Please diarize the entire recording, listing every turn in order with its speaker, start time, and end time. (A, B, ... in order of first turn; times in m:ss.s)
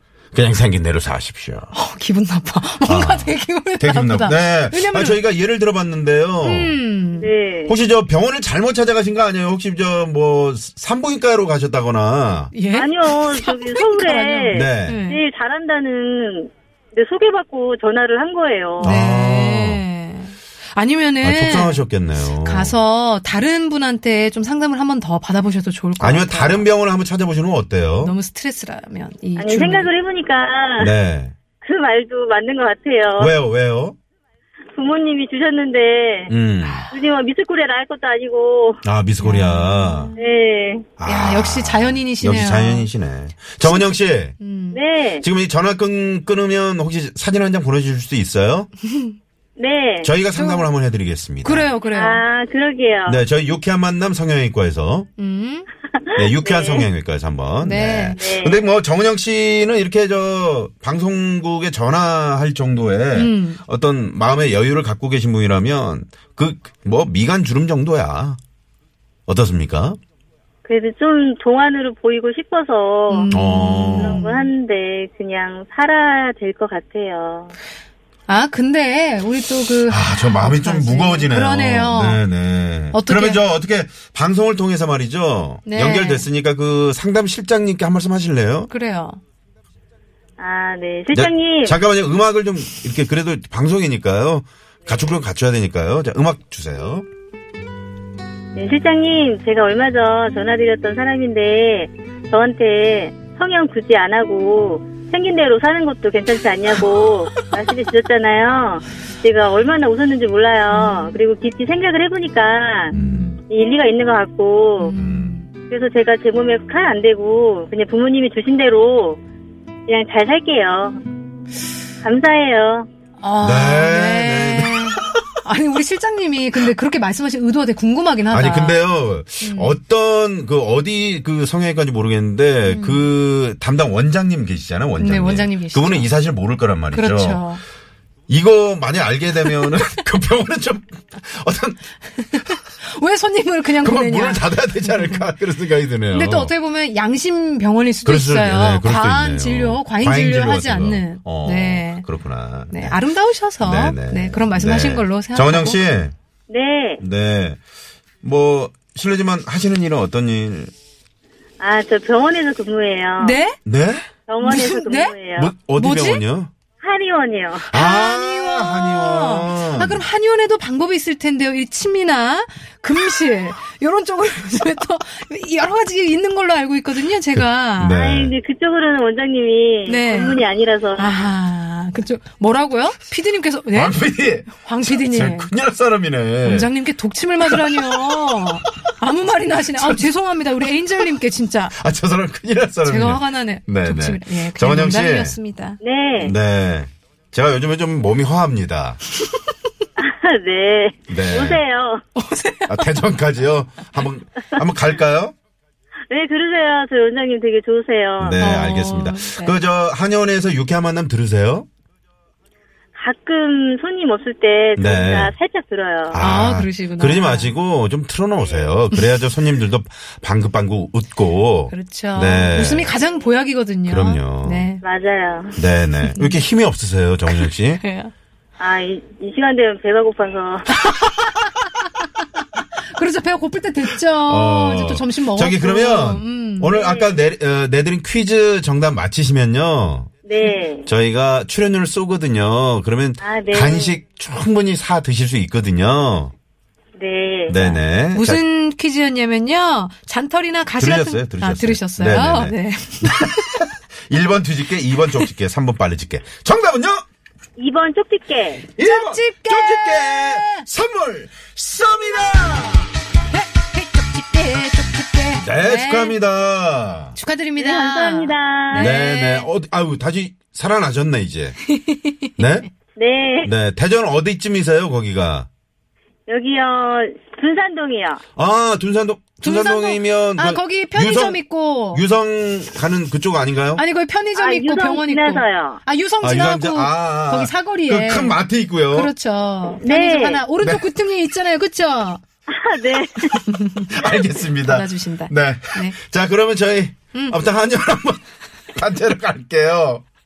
0:00.3-0:01.7 A
0:01.7-0:05.2 B
0:02.8-0:06.8 A
0:06.4-0:07.3 B
0:07.2-0:07.8 C
0:07.7-0:12.5 A
0:12.5-0:15.2 B
0:12.7-0:18.9 C
0:14.5-0:15.0 A
0:18.8-0:19.8 A
0:18.8-0:21.8 B
0:21.2-0:22.8 A
0:22.3-0:26.7 B
0:26.0-0:28.1 A
0:28.0-0:29.9 B
0:29.4-0:30.9 C
0:30.8-0:31.4 A
0:31.6-0:33.3 C
0:33.2-0:34.0 A
0:34.7-0:36.3 C
0:36.3-0:36.9 A
0:36.6-0:36.9 B
0:36.9-0:38.8 C
0:38.8-0:40.1 A
0:39.2-0:40.2 B
0:40.2-0:40.9 C
0:41.0-0:44.4 A
0:41.0-0:42.9 B
0:43.6-0:44.8 B
0:44.7-0:45.3 C
0:45.2-0:48.7 A
0:49.6-0:50.1 C
0:50.0-0:51.7 A
0:50.4-0:50.7 B
0:51.4-0:52.2 B
0:51.9-0:53.2 C
0:53.1-0:55.1 A
0:55.2-0:55.7 B
0:56.1-0:56.9 C
0:56.2-1:08.4 A
0:57.6-0:58.2 B
0:58.2-0:58.6 C
1:03.1-1:03.6 B
1:09.3-1:10.0 A
1:10.6-1:17.5 C
1:13.1-1:14.4 B
1:13.3-1:14.3 A
1:18.3-1:22.2 B
1:19.9-1:28.7 A
1:22.9-1:23.4 B
1:25.7-1:26.3 B
1:28.7-1:29.2 B
1:30.4-1:31.8 C
1:31.1-1:37.1 A
1:34.8-1:35.2 C
1:38.6-1:52.9 C
1:50.7-1:51.2 B
1:52.9-1:53.4 B
1:52.9-1:53.3 A
1:53.5-1:55.0 C
1:54.8-1:55.5 B
1:54.9-1:55.4 A
1:55.7-1:59.2 C
1:59.9-2:01.0 C
2:02.0-2:02.9 C
2:03.2-2:08.8 B
2:03.4-2:05.2 A
2:08.3-2:17.5 A
2:09.4-2:09.8 B
2:12.6-2:13.1 B
2:15.0-2:16.1 B
2:16.9-2:17.6 B
2:18.3-2:22.6 A
2:22.4-2:25.3 B
2:23.7-2:26.5 A
2:26.1-2:32.1 B
2:28.0-2:33.0 A
2:32.7-2:35.8 B
2:33.6-2:36.1 A
2:36.5-2:37.0 C
2:37.0-2:37.6 A
2:38.2-2:40.7 A
2:41.6-2:43.4 C
2:43.2-2:43.6 B
2:43.6-2:44.0 A
2:44.3-2:45.5 C
2:44.4-2:45.2 B
2:45.4-2:46.5 A
2:45.7-2:46.2 B
2:46.8-2:47.7 C
2:47.7-2:50.1 A
2:47.7-2:58.0 B
2:57.3-2:58.4 A
2:57.9-3:01.2 C
2:59.9-3:00.4 B
3:01.0-3:05.5 B
3:03.7-3:06.7 A
3:06.4-3:11.7 B
3:07.4-3:08.6 A
3:09.6-3:10.1 A
3:10.6-3:11.1 A
3:11.7-3:15.4 A
3:12.8-3:15.8 B
3:15.8-3:16.4 C
3:16.2-3:19.0 A
3:20.0-3:22.0 C
3:21.1-3:21.6 A
3:22.2-3:23.0 B
3:22.7-3:25.3 A
3:26.1-3:28.5 C
3:28.2-3:31.7 A
3:28.4-3:29.6 B
3:33.0-3:36.2 C
3:34.8-3:35.3 A
3:36.1-3:42.9 A
3:36.2-3:37.5 B
3:38.4-3:38.8 C
3:41.7-3:44.8 B
3:43.9-3:44.7 A
3:44.8-3:45.6 C
3:45.6-3:47.8 A
3:46.0-3:46.4 B
3:47.3-3:48.1 B
3:48.6-3:50.7 C
3:50.7-3:52.1 B
3:52.6-3:56.7 B
3:54.3-4:00.1 A
3:56.7-3:57.2 C
4:00.2-4:00.9 C
4:00.8-4:06.3 A
4:03.2-4:04.0 C
4:07.0-4:07.6 C
4:07.5-4:08.4 A
4:07.6-4:13.7 B
4:10.8-4:17.0 A
4:17.6-4:18.7 C
4:18.8-4:22.9 A
4:18.8-4:20.7 B
4:23.3-4:26.2 B
4:25.4-4:27.2 A
4:27.2-4:29.5 B
4:27.6-4:29.0 C
4:28.7-4:31.6 A
4:31.7-4:32.3 B
4:32.4-4:32.7 A
4:33.0-4:33.5 C
4:33.4-4:35.5 A
4:36.3-4:38.2 C
4:38.4-4:43.8 A
4:39.4-4:42.0 B
4:43.8-4:48.4 B
4:44.4-4:45.8 C
4:46.2-4:49.1 A
4:48.9-4:52.2 B
4:49.8-4:50.4 C
4:50.6-4:50.9 A
4:52.5-4:53.4 C
4:53.4-4:56.0 B
4:53.9-5:00.0 A
4:57.1-4:57.4 B